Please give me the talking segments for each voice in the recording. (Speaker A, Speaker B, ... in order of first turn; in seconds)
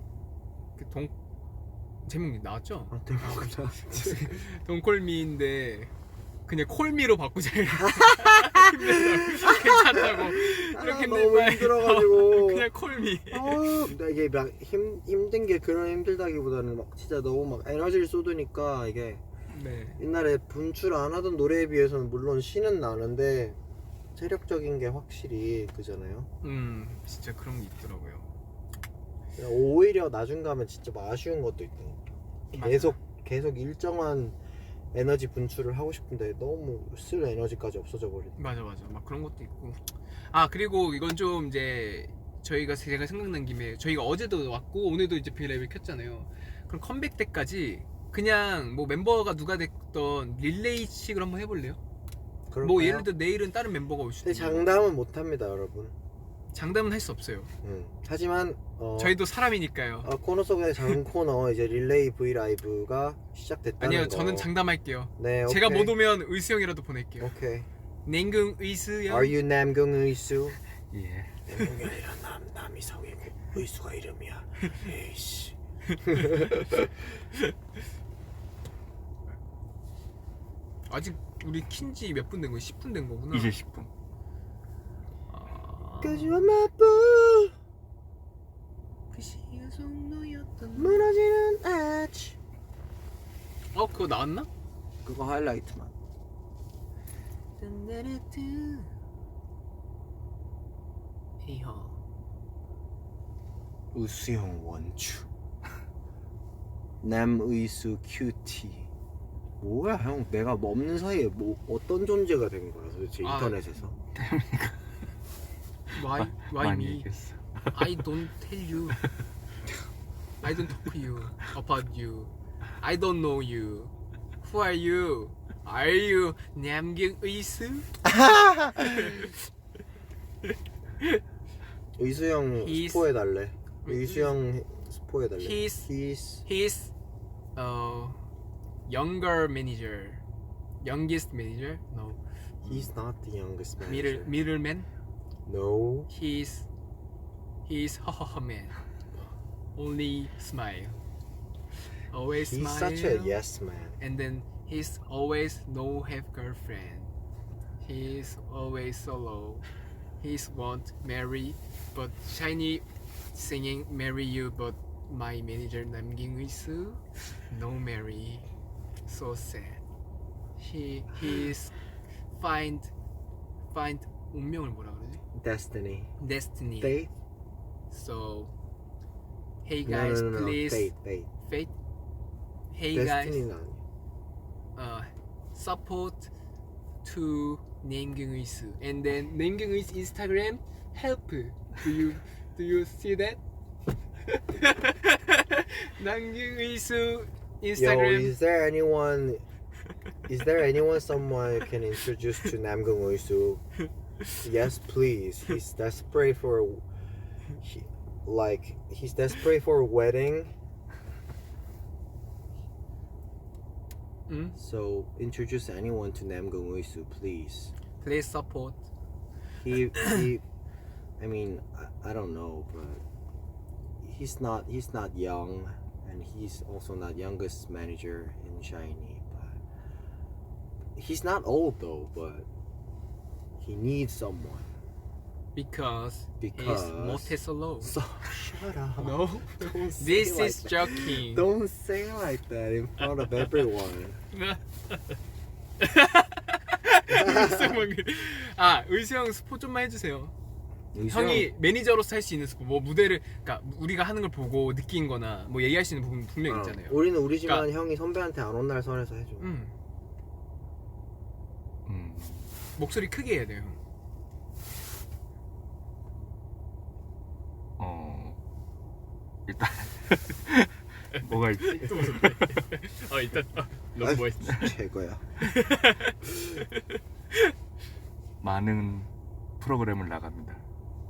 Speaker A: 0.8-1.1, 2.0-5.9, 6.5-13.9, 19.5-20.0, 26.4-28.3, 32.5-33.0, 38.4-51.8, 52.6-54.9, 56.5-57.5, 59.0-60.1, 63.8-67.3, 68.0-69.3, 76.1-76.4, 80.9-83.5, 85.3-86.5, 89.1-91.1, 93.7-94.5, 97.6-98.9, 101.4-102.0, 113.2-113.6, 115.9-117.0, 117.7-119.0, 120.4-127.9, 128.9-129.3, 132.6-133.1, 133.8-134.3, 135.4-135.9, 136.4-136.9, 137.6-138.2, 138.8-140.2, 140.8-142.8, 143.8-144.9, 146.1-146.7, 147.7-148.8, 149.7-151.0, 152.1-153.4, 154.0-157.1, 157.8-159.7, 160.2-168.4, 169.1-169.8, 170.6-171.7, 172.3-172.9, 173.7-175.2, 176.2-176.9, 177.9-178.5, 179.6-181.7, 182.7-183.4, 184.8-186.3, 187.0-193.4, 194.3-198.3, 214.3-214.5, 218.0-218.8, 235.5-238.0, 239.0-241.4, 244.3-245.2, 245.8-250.3, 251.1-257.7, 259.4-259.7, 262.8-263.8, 271.6-274.7, 275.4-277.5
Speaker B: 2.9-4.3, 7.8-12.7, 13.3-19.2, 20.0-23.6, 24.1-26.3, 29.4-34.4, 34.9-38.4, 52.5-53.1, 54.2-55.9, 57.6-59.2, 60.0-64.5, 65.2-66.0, 67.2-67.7, 69.1-70.6, 71.5-76.8, 86.0-87.5, 90.7-92.4, 95.0-95.9, 103.9-105.3, 107.0-108.9, 109.6-114.0, 128.0-129.3, 132.0-136.4, 142.6-144.3, 145.4-146.1, 152.4-154.0, 175.3-176.1, 176.8-177.1, 179.8-181.3, 182.9-183.8, 197.8-199.4, 200.3-203.6, 204.4-206.8, 207.6-210.5, 214.5-217.7, 219.6-220.4, 221.2-223.0, 224.0-229.6, 230.9-232.5, 233.6-234.7, 236.4-244.2, 247.1-247.8, 250.9-251.5, 256.5-259.5, 274.0-275.3
Speaker C: 70.9-71.4, 83.3-83.9, 114.1-114.8, 116.0-118.0, 261.9-262.5, 267.8-268.4, 269.5-272.4, 278.4-280.6